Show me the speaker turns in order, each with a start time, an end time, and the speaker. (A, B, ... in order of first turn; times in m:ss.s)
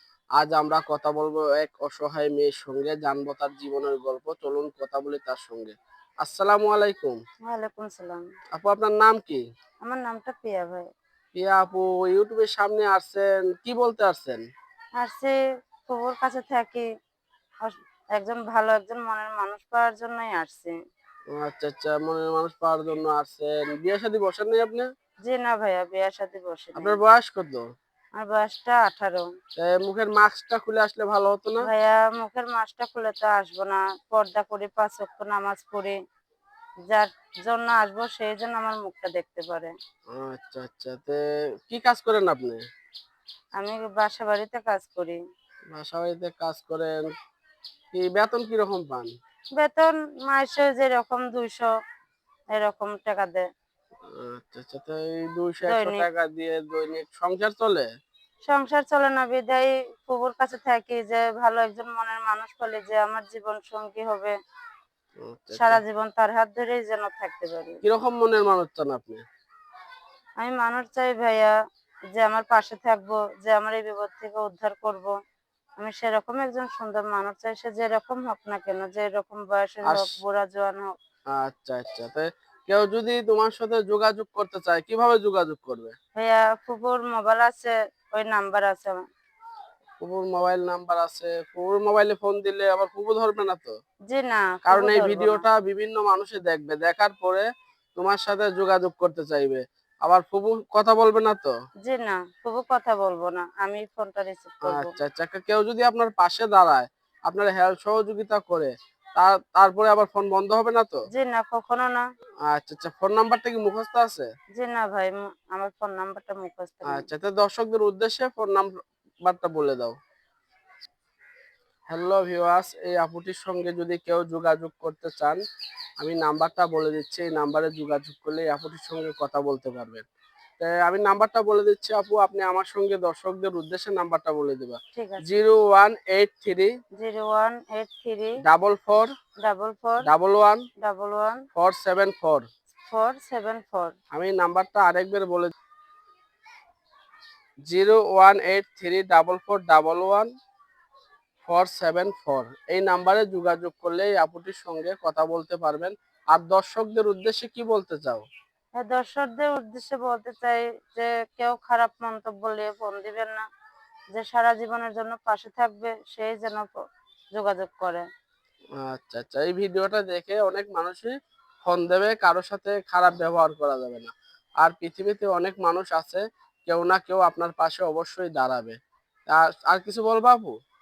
0:00.4-0:07.2 A
0:07.5-0:08.2 B
0:08.6-0:09.4 A
0:09.8-0:10.9 B
0:11.4-0:14.4 A
0:15.0-0:15.4 B
0:15.9-0:16.9 B
0:17.6-0:20.7 B
0:21.4-0:24.9 A
0:25.2-0:27.0 B
0:26.8-0:27.6 A
0:28.2-0:29.3 B
0:29.6-0:31.7 A
0:31.6-0:36.0 B
0:36.9-0:39.7 B
0:40.1-0:42.6 A
0:43.6-0:45.2 B
0:45.7-0:47.1 A
0:47.9-0:49.1 A
0:49.6-0:51.7 B
0:52.6-0:53.4 B
0:54.2-0:57.8 A
0:55.7-0:56.1 B
0:58.5-1:04.3 B
1:05.2-1:05.8 A
1:05.6-1:07.8 B
1:07.8-1:09.2 A
1:10.4-1:11.5 B
1:12.1-1:15.1 B
1:15.8-1:21.0 B
1:19.8-1:20.1 A
1:21.3-1:25.9 A
1:26.2-1:29.0 B
1:30.0-1:33.7 A
1:34.1-1:35.4 B
1:34.7-1:37.4 A
1:38.0-1:41.5 A
1:41.8-1:45.0 B
1:44.7-1:51.0 A
1:51.1-1:52.0 B
1:52.5-1:54.3 A
1:54.6-1:57.1 B
1:56.9-1:58.7 A
1:59.3-1:59.9 A
2:01.9-2:05.4 A
2:06.0-2:10.0 A
2:10.6-2:16.7 A
2:15.0-2:15.2 B
2:17.0-2:18.3 B
2:18.4-2:19.1 A
2:19.4-2:20.0 B
2:20.0-2:20.7 A
2:20.8-2:21.4 B
2:21.5-2:22.4 A
2:22.9-2:24.0 B
2:24.1-2:25.5 A
2:27.7-2:30.3 A
2:31.5-2:38.2 A
2:38.8-2:43.4 B
2:44.2-2:46.7 B
2:47.4-2:48.0 B
2:48.8-2:51.1 A
2:51.7-2:58.8 A
2:59.3-3:00.6 A